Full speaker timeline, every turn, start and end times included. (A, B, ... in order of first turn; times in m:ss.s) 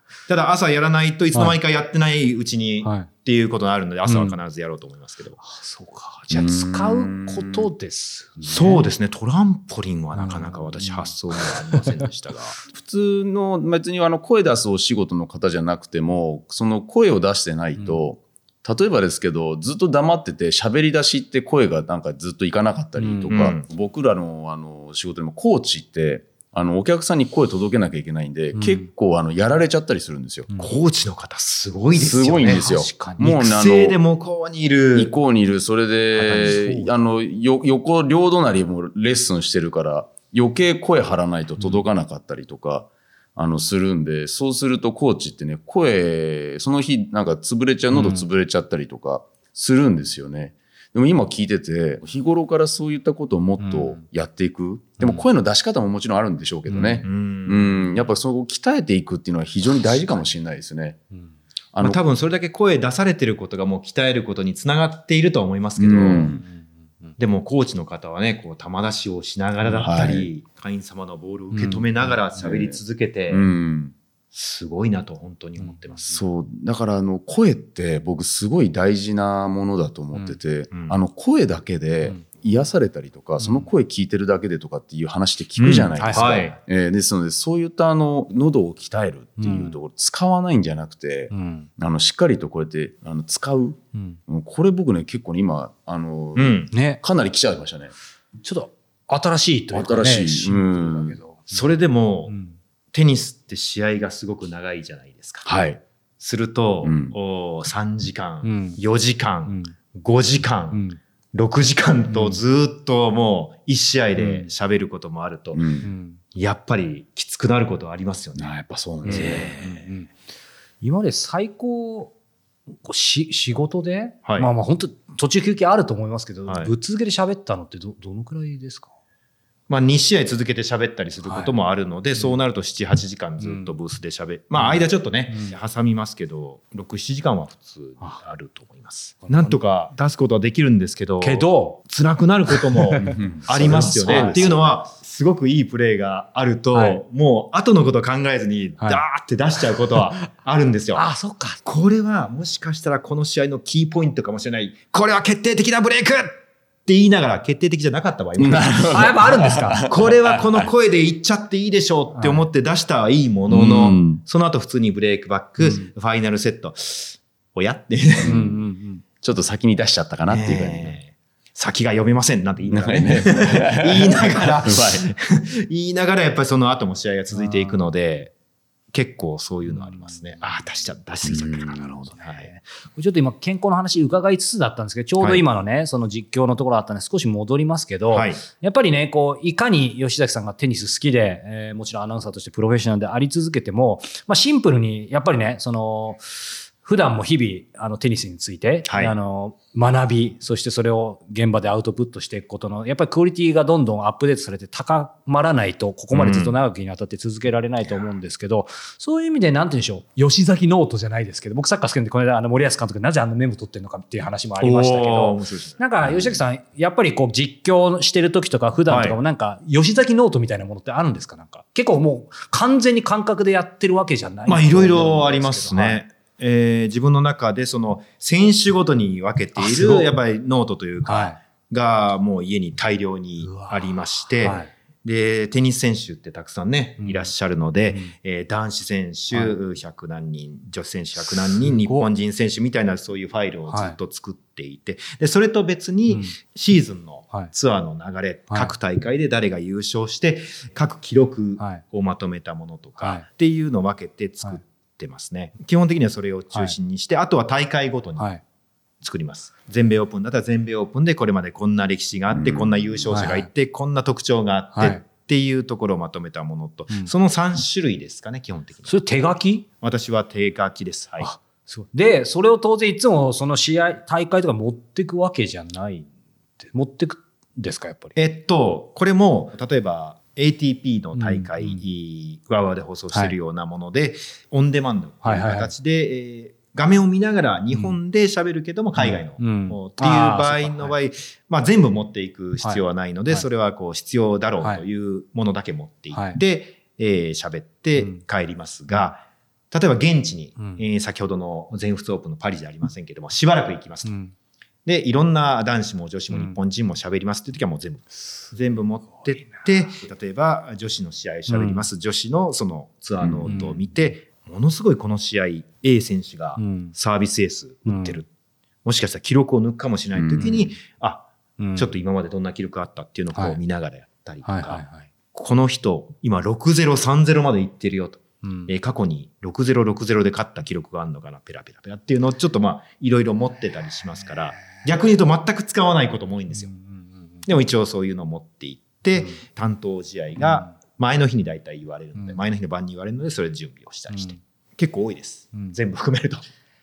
0:00.3-0:05.4 A
0:02.8-0:03.1 B
0:04.1-0:04.4 B
0:05.4-0:08.9 B
0:06.3-0:07.7 C
0:08.5-0:12.6 A
0:10.2-0:11.5 B
0:12.7-0:30.5 C
0:17.8-0:18.0 B
0:23.0-0:23.3 B
0:23.3-0:23.6 A
0:28.5-0:28.8 B
0:30.6-0:35.1 A
0:31.9-0:34.0 C
0:32.4-0:33.3 B
0:34.9-1:01.0 C
0:36.2-0:36.9 B
0:47.9-0:48.2 B
0:53.6-0:54.0 B
0:55.0-0:55.2 B
0:56.7-0:57.0 B
0:57.0-0:57.9 A
1:01.7-1:02.0 C
1:01.8-1:06.4 A
1:05.8-1:06.4 C
1:06.2-1:07.1 B
1:07.2-1:13.4 A
1:09.6-1:10.3 C
1:11.5-1:11.8 B
1:12.4-1:12.8 C
1:13.3-1:13.9 C
1:14.3-1:16.2 A
1:16.1-1:37.9 C
1:23.4-1:23.7 B
1:25.6-1:26.6 A
1:29.4-1:29.7 B
1:31.3-1:31.7 B
1:36.4-1:36.7 A
1:36.7-1:37.0 B
1:38.4-1:41.6 B
1:39.7-1:41.2 C
1:41.5-1:42.4 A
1:42.3-1:42.6 B
1:42.9-1:45.5 A
1:45.4-1:45.8 C
1:46.2-1:55.6 A
1:46.8-1:47.1 C
1:48.4-1:48.8 B
1:49.5-1:49.7 B
1:50.7-1:51.0 B
1:55.5-1:55.9 C
1:55.8-1:56.2 B
1:56.3-1:58.5 A
1:58.4-1:59.5 C
1:59.0-1:59.8 A
1:59.0-2:00.1 B
2:00.8-2:02.1 B
2:02.8-2:08.9 B
2:04.2-2:04.5 A
2:06.5-2:06.7 A
2:09.7-2:31.1 A
2:11.2-2:11.5 B
2:13.4-2:13.7 B
2:19.2-2:19.5 B
2:21.2-2:21.8 B
2:22.5-2:24.5 B
2:23.1-2:24.8 C
2:26.7-2:27.0 B
2:30.9-2:31.6 B
2:31.6-2:39.2 A
2:38.4-2:40.6 C
2:38.9-2:39.8 B
2:39.8-2:48.4 A
2:42.2-2:42.4 B
2:43.5-2:44.2 C
2:48.2-2:48.6 C
2:48.2-2:49.0 B
2:49.2-2:50.9 C
2:50.2-2:58.3 A
2:52.7-2:55.0 C
2:57.3-2:57.8 B
2:58.9-3:02.5 A
2:59.7-3:00.0 B
3:01.2-3:01.9 C
3:01.7-3:46.0 B
3:08.1-3:08.4 A
3:18.9-3:19.1 A
3:26.1-3:26.6 A
3:34.6-3:36.1 A
3:38.9-3:39.2 A
3:44.5-4:18.3 A
3:49.6-3:50.1 B
3:51.0-3:51.4 B
3:53.4-3:53.9 B
3:54.4-3:54.7 B
3:57.0-3:57.3 B
4:01.5-4:02.1 B
4:03.7-4:04.0 B
4:06.1-4:06.3 B
4:13.0-4:13.2 B
4:19.0-4:28.9 A
4:22.3-4:22.7 C
4:23.1-4:23.5 B
4:24.7-4:25.0 B
4:28.9-4:29.7 B
4:29.8-4:31.3 A
4:31.2-4:36.1 B
4:36.6-4:38.1 B
4:38.2-5:04.1 A
4:41.1-4:41.8 B
4:45.2-4:45.7 B
4:49.0-4:50.9 B
4:52.6-4:53.4 B
4:56.1-4:56.4 B
5:00.6-5:00.8 B
5:04.0-5:04.3 B
5:04.8-5:18.3 A
5:11.5-5:11.8 B
5:13.2-5:13.5 C
5:13.5-5:13.8 B
5:16.6-5:16.9 B
5:17.9-5:18.2 B
5:18.8-5:36.7 A
5:20.1-5:20.7 C
5:21.6-5:21.9 B
5:23.3-5:23.6 B
5:24.4-5:25.1 B
5:28.4-5:28.7 B
5:36.7-5:37.1 B
5:37.4-5:46.4 A